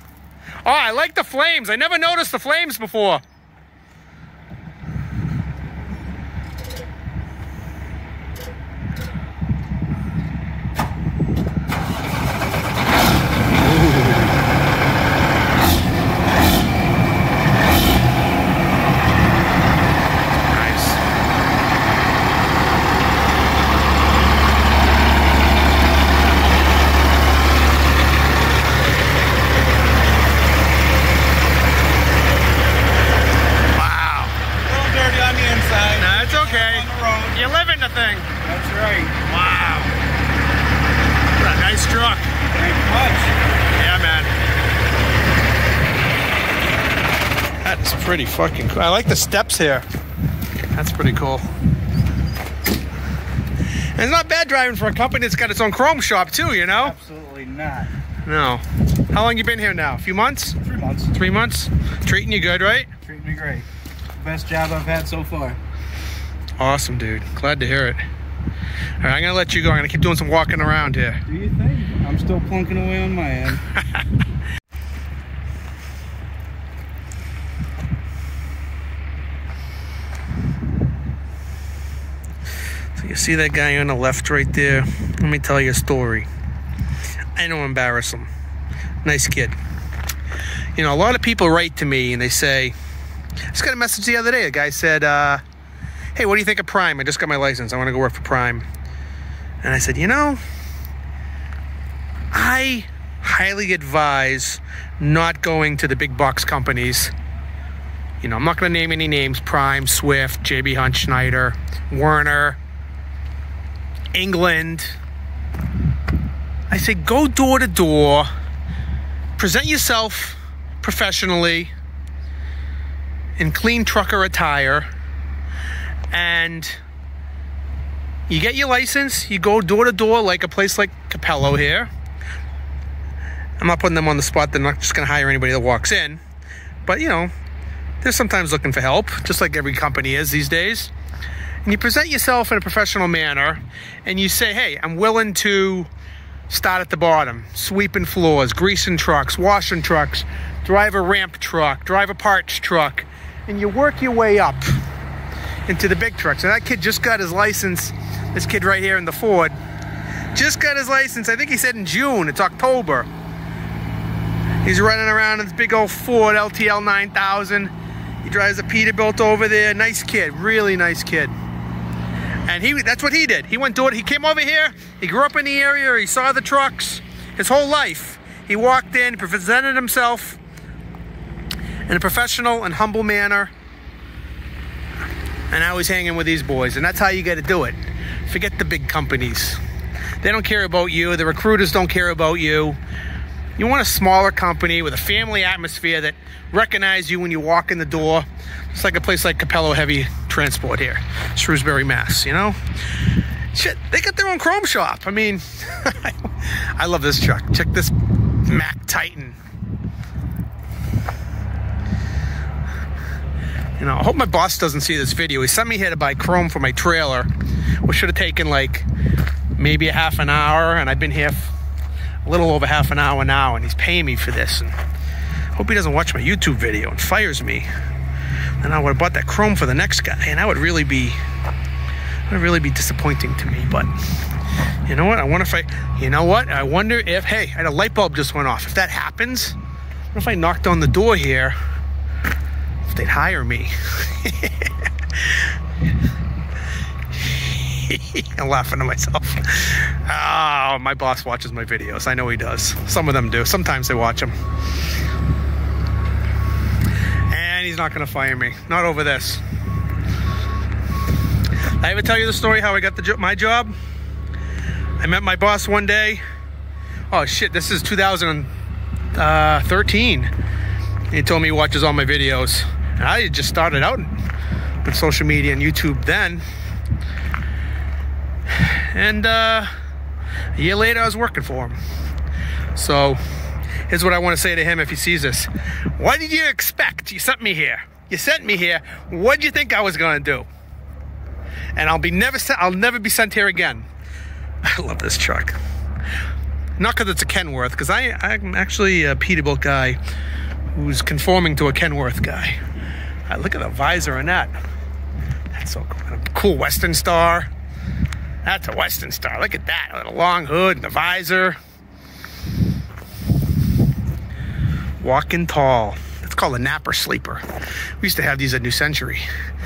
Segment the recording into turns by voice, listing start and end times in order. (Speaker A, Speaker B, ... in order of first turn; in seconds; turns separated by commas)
Speaker A: 0.6-3.2, Speaker A: 20.5-21.0, Speaker A: 33.7-34.4, Speaker B: 34.6-37.4, Speaker A: 36.0-38.3, Speaker B: 38.5-39.2, Speaker A: 39.2-39.9, Speaker A: 41.4-42.4, Speaker B: 42.5-43.3, Speaker A: 43.8-44.3, Speaker A: 47.6-49.9, Speaker A: 50.7-51.5, Speaker A: 53.9-57.0, Speaker B: 56.8-57.9, Speaker A: 58.2-60.6, Speaker B: 60.6-61.1, Speaker A: 61.1-62.9, Speaker B: 63.1-65.6, Speaker A: 66.6-68.0, Speaker A: 69.0-71.2, Speaker B: 71.3-73.6, Speaker A: 83.0-86.3, Speaker A: 87.4-88.3, Speaker A: 89.0-89.6, Speaker A: 90.8-92.8, Speaker A: 93.5-95.4, Speaker A: 96.2-98.7, Speaker A: 99.6-100.4, Speaker A: 102.3-107.1, Speaker A: 108.2-112.6, Speaker A: 114.1-115.0, Speaker A: 116.7-118.3, Speaker A: 119.4-121.7, Speaker A: 123.4-124.9, Speaker A: 126.1-126.8, Speaker A: 128.3-131.9, Speaker A: 133.6-136.2, Speaker A: 136.9-137.3, Speaker A: 138.0-140.9, Speaker A: 141.6-145.9, Speaker A: 146.5-154.8, Speaker A: 155.7-159.6, Speaker A: 160.3-163.1, Speaker A: 164.6-167.7, Speaker A: 168.2-171.3, Speaker A: 172.5-180.4, Speaker A: 181.9-183.5, Speaker A: 185.5-189.6, Speaker A: 190.2-192.8, Speaker A: 193.6-202.6, Speaker A: 203.5-207.9, Speaker A: 208.4-209.4, Speaker A: 213.8-217.3, Speaker A: 217.8-218.9, Speaker A: 219.6-221.6, Speaker A: 222.2-224.8, Speaker A: 225.6-227.7, Speaker A: 228.6-231.2, Speaker A: 232.3-233.9, Speaker A: 234.9-239.6, Speaker A: 240.1-241.6, Speaker A: 242.8-245.4, Speaker A: 247.2-254.3, Speaker A: 257.3-259.4, Speaker A: 261.8-263.8, Speaker A: 265.0-266.2, Speaker A: 267.1-268.5, Speaker A: 269.1-270.3, Speaker A: 271.1-274.2, Speaker A: 274.8-276.4, Speaker A: 278.5-279.7, Speaker A: 280.6-281.8, Speaker A: 282.7-283.2, Speaker A: 283.9-290.5, Speaker A: 291.8-293.9, Speaker A: 294.6-295.6, Speaker A: 296.8-300.0, Speaker A: 300.7-302.6, Speaker A: 303.3-304.5, Speaker A: 305.5-307.5, Speaker A: 308.4-311.6, Speaker A: 315.0-319.3